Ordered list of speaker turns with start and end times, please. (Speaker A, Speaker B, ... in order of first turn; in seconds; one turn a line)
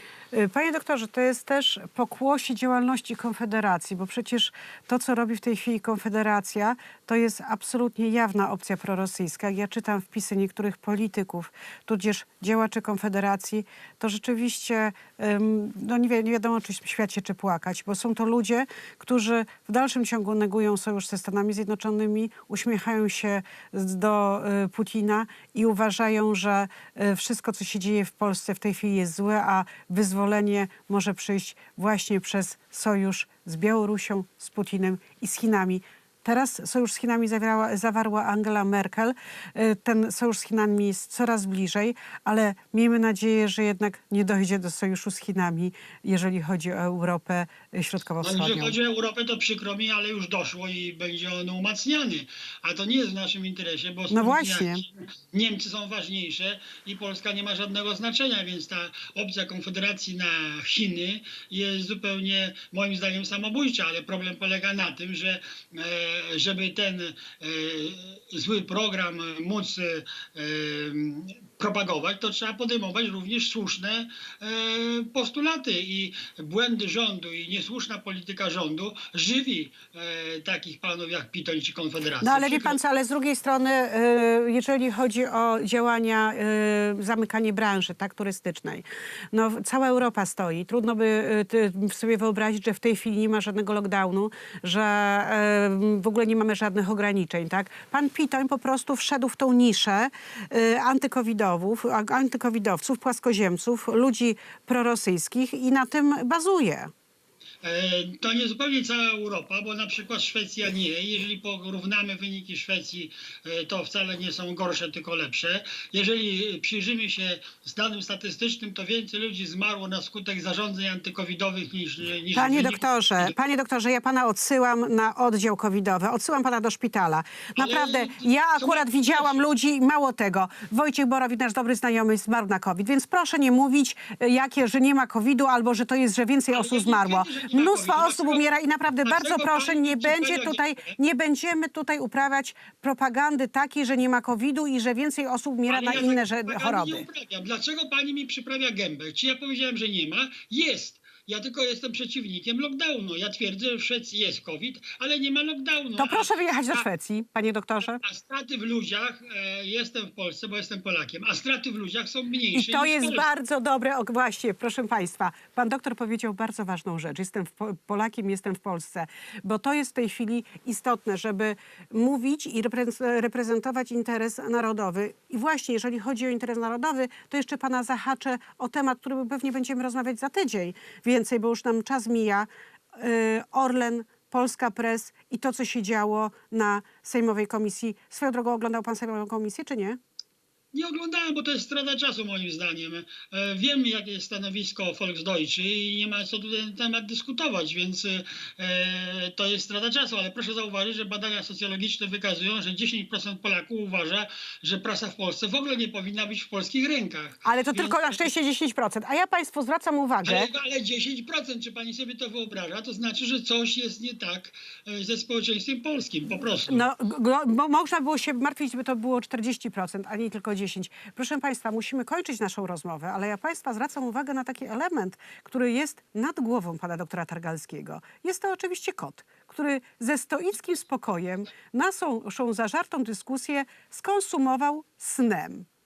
Speaker A: 0.3-48.7
Speaker B: 48.2-82.8
Speaker A: 54.1-54.8
Speaker A: 82.2-106.9
Speaker B: 107.6-123.3
Speaker A: 122.3-147.1
Speaker B: 127.5-129.4
Speaker B: 136.5-138.5
Speaker B: 139.0-140.9
Speaker B: 145.7-156.8
Speaker A: 155.9-158.0
Speaker B: 157.9-163.3
Speaker A: 162.5-190.0
Speaker B: 190.7-208.2
Speaker A: 207.4-210.5
Speaker B: 210.2-216.8
Speaker A: 216.7-235.7